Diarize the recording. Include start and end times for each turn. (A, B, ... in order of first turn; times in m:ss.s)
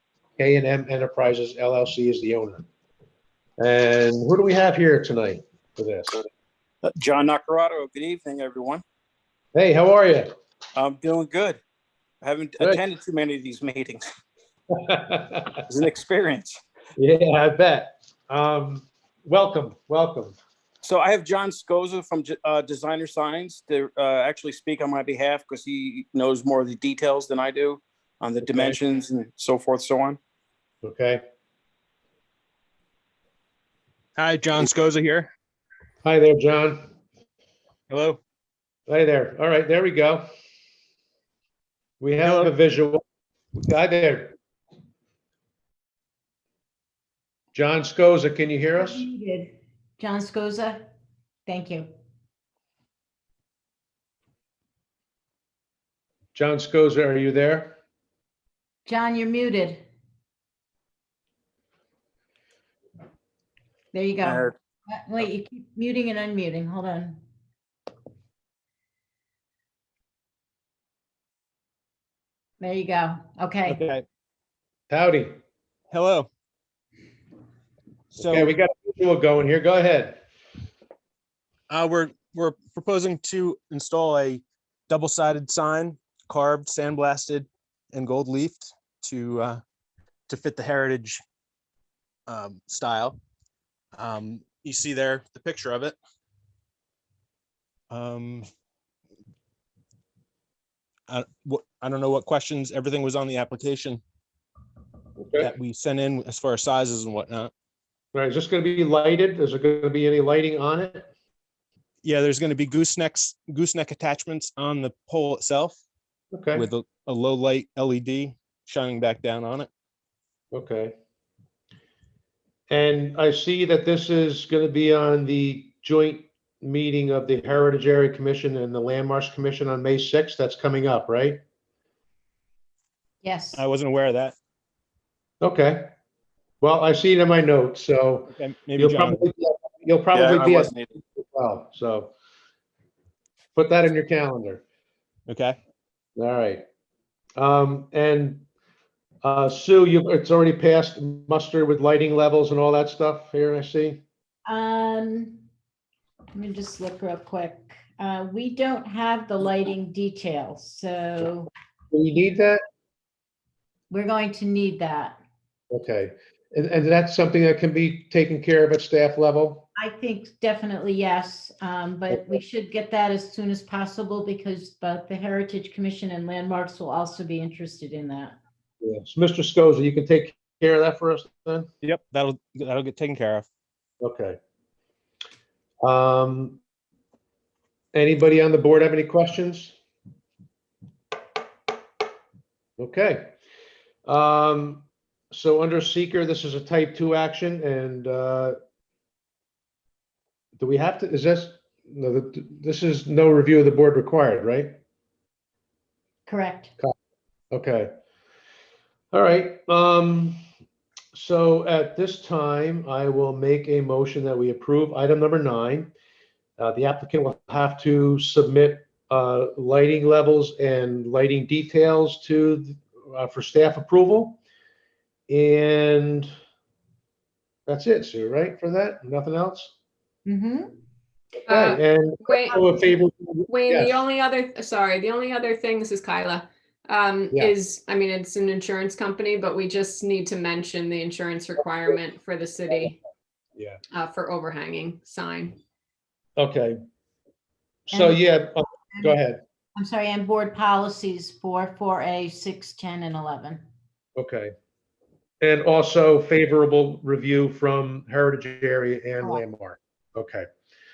0:00.4-0:02.6 A
0:03.6-0:06.2 A
0:06.9-0:08.8 B
0:09.6-0:10.3 A
0:10.8-0:11.6 B
0:12.2-0:14.0 B
0:14.7-0:15.6 A
0:15.7-0:16.6 B
0:17.0-0:20.4 A
0:20.8-0:30.2 B
0:28.4-0:28.8 A
0:30.8-0:31.2 A
0:34.2-0:35.3 C
0:36.0-0:36.9 A
0:37.9-0:38.2 C
0:38.9-0:40.3 A
0:42.0-0:43.0 A
0:42.2-0:42.5 C
0:43.6-0:44.3 A
0:47.5-0:49.0 A
0:48.8-0:50.8 D
0:51.4-0:51.9 D
0:56.3-0:57.8 A
0:58.8-0:59.8 D
1:03.9-1:07.2 D
1:12.6-1:13.8 D
1:13.7-1:14.0 C
1:14.9-1:15.4 A
1:15.9-1:16.3 C
1:18.2-1:18.5 C
1:18.2-1:20.2 A
1:21.7-1:29.6 C
1:30.3-1:31.2 C
1:32.3-1:33.2 C
1:34.0-1:36.0 C
1:37.9-1:38.5 C
1:41.1-1:44.0 C
1:45.2-1:45.5 A
1:45.4-1:47.5 C
1:48.1-1:51.1 A
1:52.0-1:55.8 C
1:56.3-1:56.7 A
1:56.5-1:59.7 C
2:00.5-2:00.9 A
2:02.7-2:11.4 A
2:13.2-2:13.6 D
2:13.6-2:14.3 C
2:15.4-2:15.9 A
2:16.6-2:22.1 A
2:18.3-2:19.2 C
2:20.1-2:20.9 B
2:23.6-2:24.6 A
2:25.3-2:25.6 C
2:26.2-2:26.6 A
2:27.4-2:28.4 A
2:29.2-2:34.0 A
2:34.4-2:35.4 D
2:36.3-2:41.5 D
2:41.9-2:42.6 A
2:43.9-2:45.2 D
2:45.7-2:49.7 A
2:49.8-2:58.4 D
2:58.8-3:01.7 A
3:01.8-3:03.4 C
3:04.0-3:04.4 A
3:05.8-3:06.6 A
3:07.9-3:09.8 A
3:12.8-3:13.3 A
3:14.0-3:18.6 A
3:20.6-3:24.8 A
3:26.2-3:26.7 D
3:27.5-3:27.9 A
3:29.1-3:30.4 A
3:31.1-3:35.9 A
3:36.6-3:44.4 A
3:45.3-3:46.3 A
3:47.7-3:49.7 A
3:50.2-3:50.8 D
3:51.4-3:54.0 A
3:51.5-3:52.7 E
3:53.5-4:03.0 E
4:03.9-4:05.6 E
4:06.4-4:06.8 A
4:07.9-4:08.2 D
4:07.9-4:09.4 A
4:08.9-4:09.2 D
4:09.8-4:13.6 D
4:14.2-4:14.5 A
4:15.4-4:20.5 A